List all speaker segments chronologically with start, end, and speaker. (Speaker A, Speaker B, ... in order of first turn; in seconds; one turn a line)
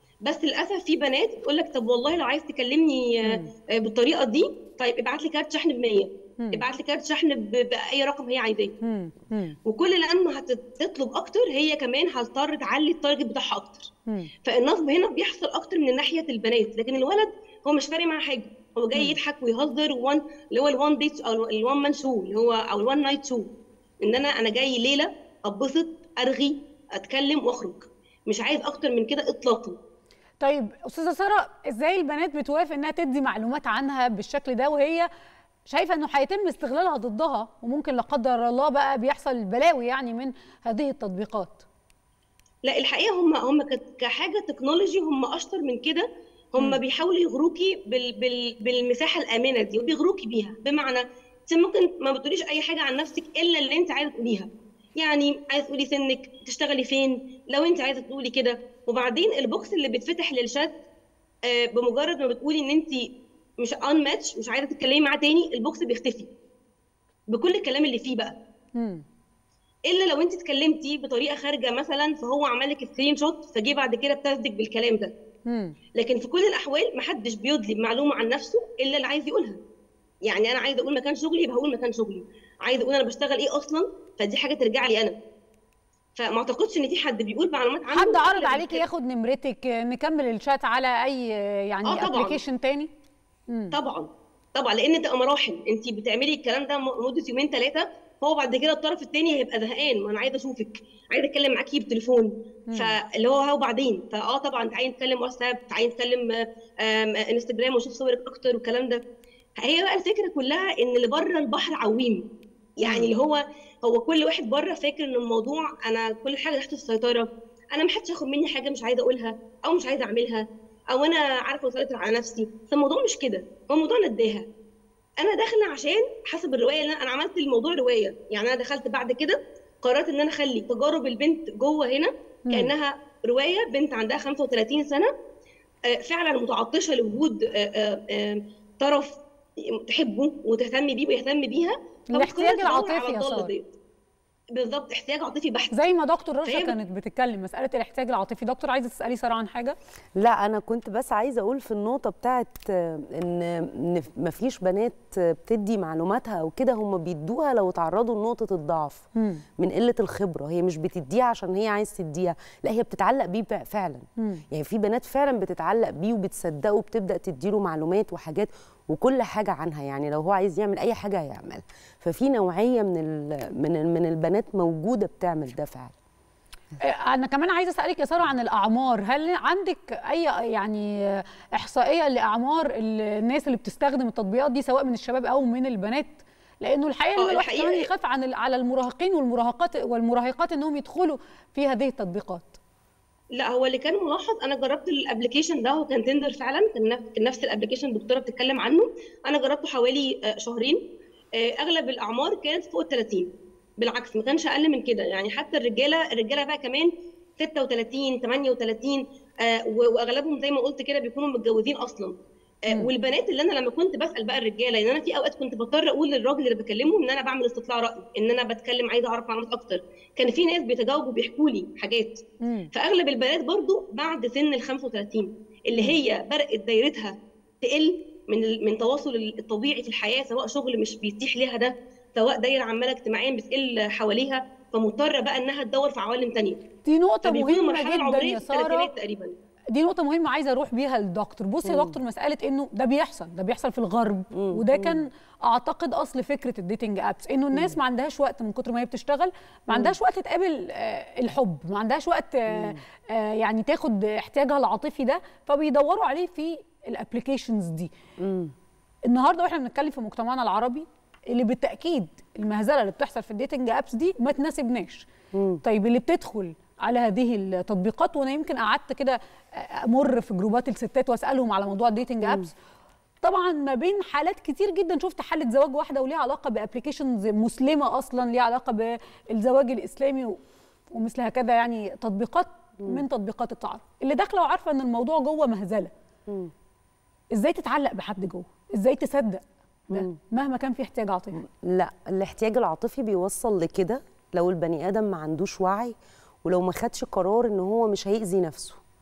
Speaker A: 0.2-8.8
Speaker B: 6.4-6.6
Speaker B: 8.8-9.6
Speaker A: 9.7-13.9
Speaker A: 14.4-23.5
Speaker A: 24.0-29.8
Speaker B: 30.4-35.1
Speaker B: 35.7-41.6
Speaker A: 42.6-60.8
Speaker A: 61.5-63.0
Speaker A: 63.6-66.3
Speaker A: 67.3-68.4
Speaker B: 68.8-69.0
Speaker A: 69.9-75.1
Speaker B: 75.5-75.8
Speaker A: 76.0-79.6
Speaker A: 80.3-85.2
Speaker A: 86.2-88.8
Speaker B: 87.9-92.9
Speaker A: 91.8-92.4
Speaker B: 93.5-93.8
Speaker A: 93.7-109.0
Speaker B: 102.7-103.0
Speaker A: 109.6-112.2
Speaker A: 112.8-124.5
Speaker A: 125.2-135.1
Speaker B: 132.5-132.7
Speaker A: 135.9-143.7
Speaker B: 142.1-143.5
Speaker A: 144.6-145.7
Speaker B: 145.7-149.8
Speaker A: 146.5-146.8
Speaker C: 150.2-159.1
Speaker B: 159.2-159.4
Speaker C: 159.6-175.9
Speaker B: 164.2-164.4
Speaker B: 176.8-192.6
Speaker A: 187.2-187.9
Speaker A: 193.4-200.8
Speaker A: 201.4-212.2
Speaker A: 212.7-222.2
Speaker B: 222.4-222.7
Speaker A: 222.7-236.6
Speaker B: 236.8-238.9
Speaker A: 237.2-239.3
Speaker B: 239.7-257.9
Speaker C: 241.7-242.0
Speaker C: 244.3-245.0
Speaker C: 252.5-252.8
Speaker C: 258.2-258.5
Speaker B: 259.1-265.1
Speaker C: 265.3-265.6
Speaker B: 265.6-272.5
Speaker C: 272.2-272.5
Speaker B: 273.2-280.4
Speaker B: 280.9-285.9
Speaker C: 286.3-286.5
Speaker B: 287.3-291.4
Speaker C: 289.9-290.2
Speaker C: 291.4-298.8